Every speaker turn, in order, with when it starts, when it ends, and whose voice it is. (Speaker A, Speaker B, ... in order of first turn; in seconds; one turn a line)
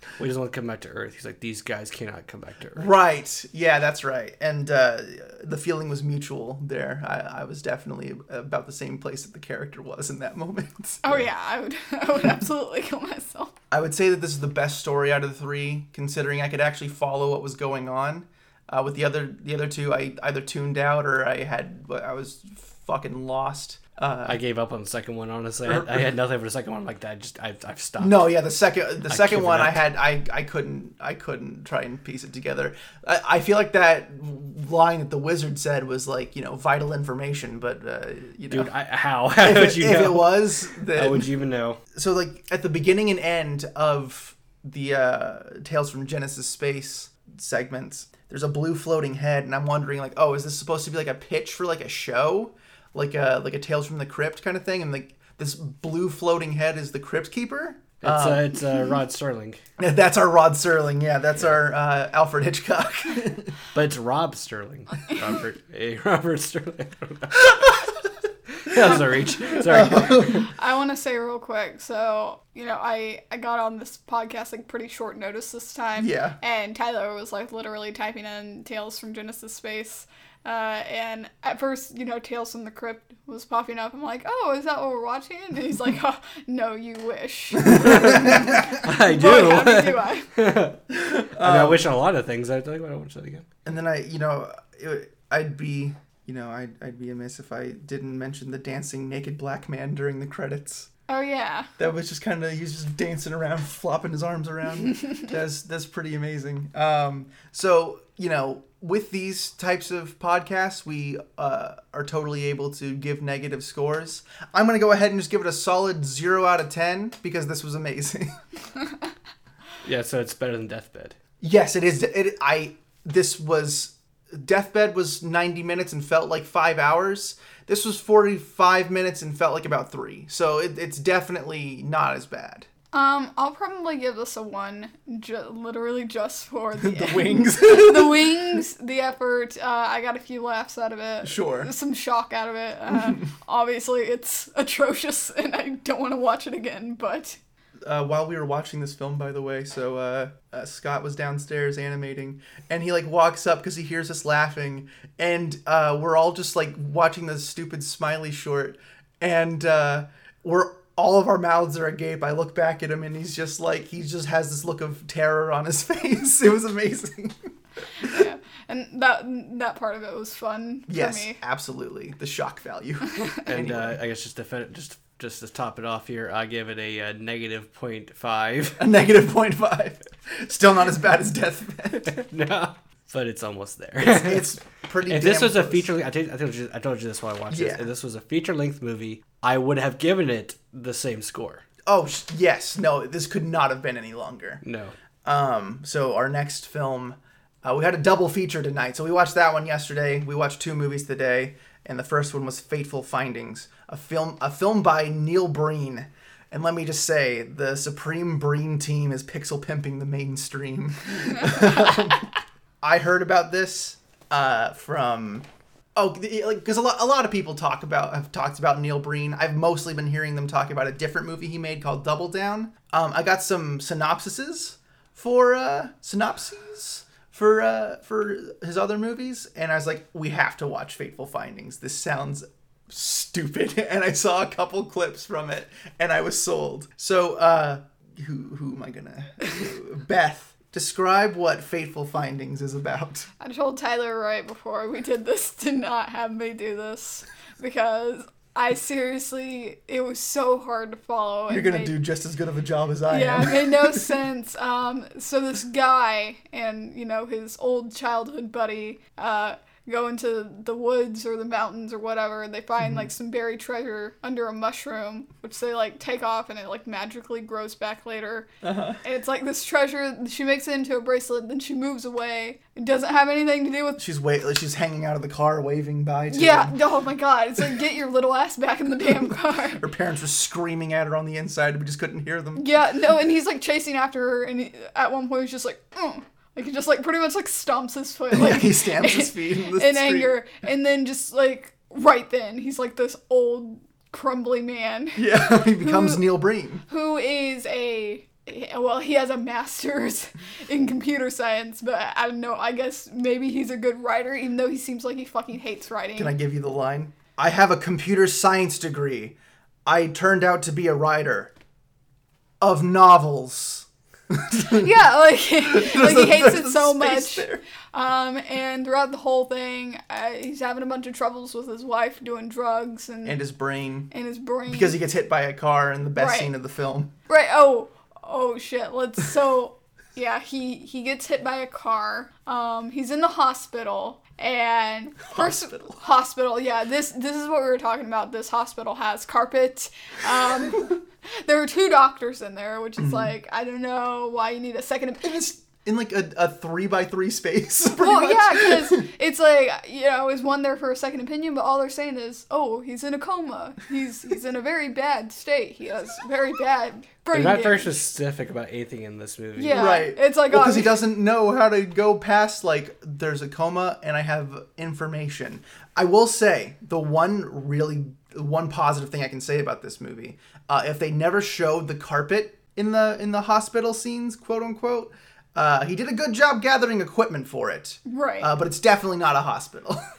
Speaker A: 0.2-2.9
Speaker B: 2.8-11.2
Speaker C: 11.0-13.5
Speaker B: 13.7-24.4
Speaker A: 24.2-28.3
Speaker B: 25.6-26.0
Speaker B: 28.0-38.7
Speaker A: 29.1-29.8
Speaker A: 38.5-41.8
Speaker B: 39.4-41.3
Speaker B: 41.9-58.6
Speaker A: 58.0-59.6
Speaker B: 59.8-63.5
Speaker A: 63.7-67.8
Speaker A: 68.5-70.4
Speaker B: 68.7-70.5
Speaker C: 70.2-90.3
Speaker B: 76.0-76.4
Speaker B: 87.5-88.8
Speaker A: 87.7-93.5
Speaker B: 90.9-91.8
Speaker B: 93.6-100.9
Speaker C: 101.1-101.7
Speaker B: 101.8-118.4
Speaker A: 119.8-121.1
Speaker B: 121.4-132.7
Speaker C: 132.9-147.4
Speaker B: 136.8-138.4
Speaker B: 141.2-141.7
Speaker B: 142.9-143.2
Speaker B: 147.8-168.2
Speaker C: 168.0-171.4
Speaker B: 170.9-174.0
Speaker A: 173.4-178.8
Speaker B: 178.8-182.1
Speaker A: 182.0-191.6
Speaker B: 184.0-185.9
Speaker B: 187.5-187.8
Speaker B: 191.8-194.6
Speaker A: 194.6-194.9
Speaker B: 195.2-212.3
Speaker B: 212.8-243.3
Speaker C: 243.4-251.9
Speaker B: 251.5-254.1
Speaker C: 253.1-268.5
Speaker B: 262.8-263.1
Speaker B: 268.6-269.0
Speaker C: 269.0-274.0
Speaker B: 274.0-276.8
Speaker C: 276.3-279.8
Speaker B: 279.8-282.6
Speaker C: 282.6-296.2
Speaker B: 288.3-290.3
Speaker B: 295.1-296.8
Speaker C: 296.9-306.3
Speaker B: 306.2-311.5
Speaker B: 312.6-314.9
Speaker C: 314.6-323.4
Speaker B: 315.6-317.6
Speaker B: 323.2-324.1
Speaker C: 324.1-325.0
Speaker B: 324.7-327.1
Speaker C: 326.2-326.5
Speaker C: 327.3-345.4
Speaker B: 335.2-336.0
Speaker B: 343.0-343.3
Speaker B: 345.2-349.1
Speaker C: 347.9-358.0
Speaker A: 357.3-359.9
Speaker C: 359.6-361.0
Speaker B: 359.7-380.0
Speaker C: 378.1-378.5